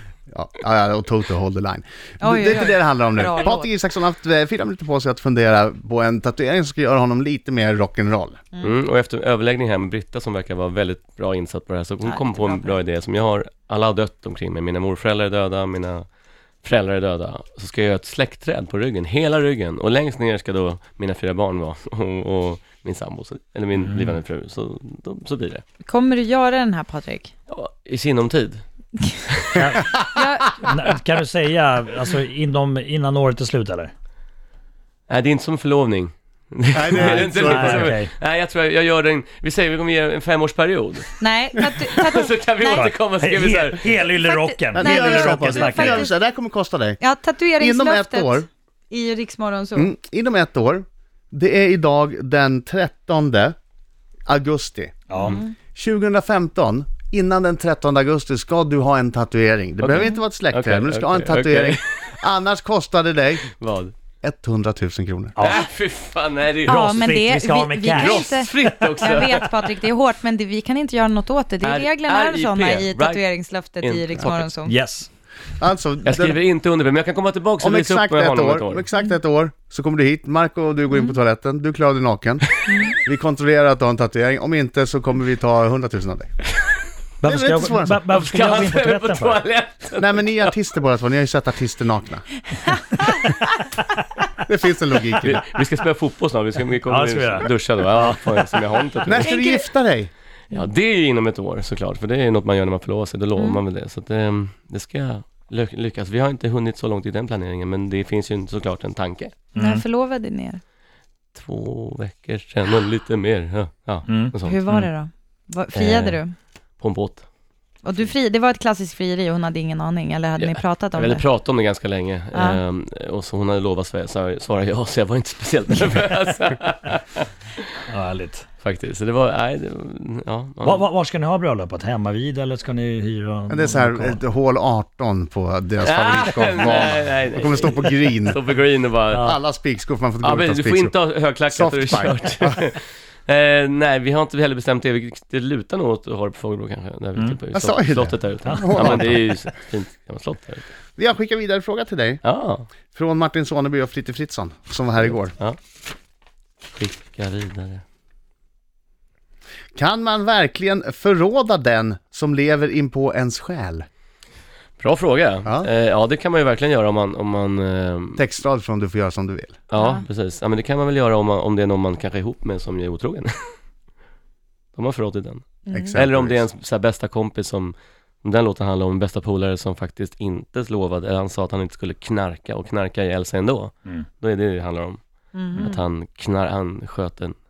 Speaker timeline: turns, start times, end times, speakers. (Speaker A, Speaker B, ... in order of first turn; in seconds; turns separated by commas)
Speaker A: 0.3-8.4, Speaker B: 2.2-3.7, Speaker C: 8.6-16.1, Speaker B: 12.0-12.8, Speaker C: 16.6-25.6, Speaker D: 23.8-24.2, Speaker B: 25.9-27.3, Speaker C: 27.5-28.6, Speaker C: 29.3-29.7, Speaker D: 29.6-29.9, Speaker B: 30.1-30.6, Speaker D: 30.6-33.9, Speaker C: 35.1-41.1, Speaker A: 36.7-38.0, Speaker D: 37.0-38.1, Speaker B: 41.2-42.9, Speaker C: 42.0-44.1, Speaker D: 42.7-46.1, Speaker B: 44.1-46.1, Speaker A: 44.8-47.0, Speaker B: 47.0-49.9, Speaker A: 47.6-48.5, Speaker A: 49.8-53.5, Speaker A: 54.3-54.9, Speaker D: 55.1-55.4, Speaker B: 55.2-55.5, Speaker A: 55.7-63.5, Speaker C: 59.8-62.1, Speaker C: 63.6-63.9, Speaker A: 64.2-65.3, Speaker D: 65.4-65.7, Speaker C: 65.4-66.8, Speaker B: 66.7-74.8, Speaker D: 66.7-69.0, Speaker C: 67.9-69.6, Speaker C: 71.6-73.2, Speaker C: 73.8-74.5, Speaker D: 74.7-75.1, Speaker A: 75.6-76.4, Speaker C: 76.0-78.8, Speaker A: 77.6-82.5, Speaker B: 82.7-82.9, Speaker A: 83.0-86.3, Speaker D: 87.2-89.4, Speaker A: 87.2-88.1, Speaker C: 88.1-90.5, Speaker A: 90.0-92.3, Speaker B: 92.7-93.4, Speaker A: 94.4-95.4, Speaker C: 95.2-99.3, Speaker D: 96.9-99.2, Speaker A: 99.1-100.1, Speaker B: 99.2-99.7, Speaker C: 100.5-109.4, Speaker D: 109.5-109.8, Speaker B: 109.6-110.6, Speaker C: 111.3-114.6, Speaker D: 114.1-114.9, Speaker B: 114.4-116.3, Speaker C: 115.7-116.2, Speaker C: 116.8-117.3, Speaker B: 117.8-121.2, Speaker C: 120.4-127.2, Speaker B: 122.3-122.6, Speaker D: 127.9-128.5, Speaker C: 128.6-130.9, Speaker D: 130.6-134.2, Speaker A: 133.5-138.4, Speaker C: 135.8-139.3, Speaker D: 139.1-139.4, Speaker A: 139.2-142.6, Speaker C: 140.2-150.7, Speaker A: 147.5-149.2, Speaker D: 148.4-149.5, Speaker A: 151.0-152.2, Speaker C: 152.2-152.7, Speaker A: 152.9-155.3, Speaker C: 155.1-155.6, Speaker C: 156.7-157.8, Speaker A: 159.8-163.9, Speaker C: 164.8-168.2, Speaker A: 168.2-169.6, Speaker C: 169.7-173.5, Speaker B: 169.8-170.1, Speaker C: 174.8-185.0, Speaker B: 175.7-176.0, Speaker A: 175.7-176.4, Speaker B: 185.3-185.8, Speaker C: 185.6-187.4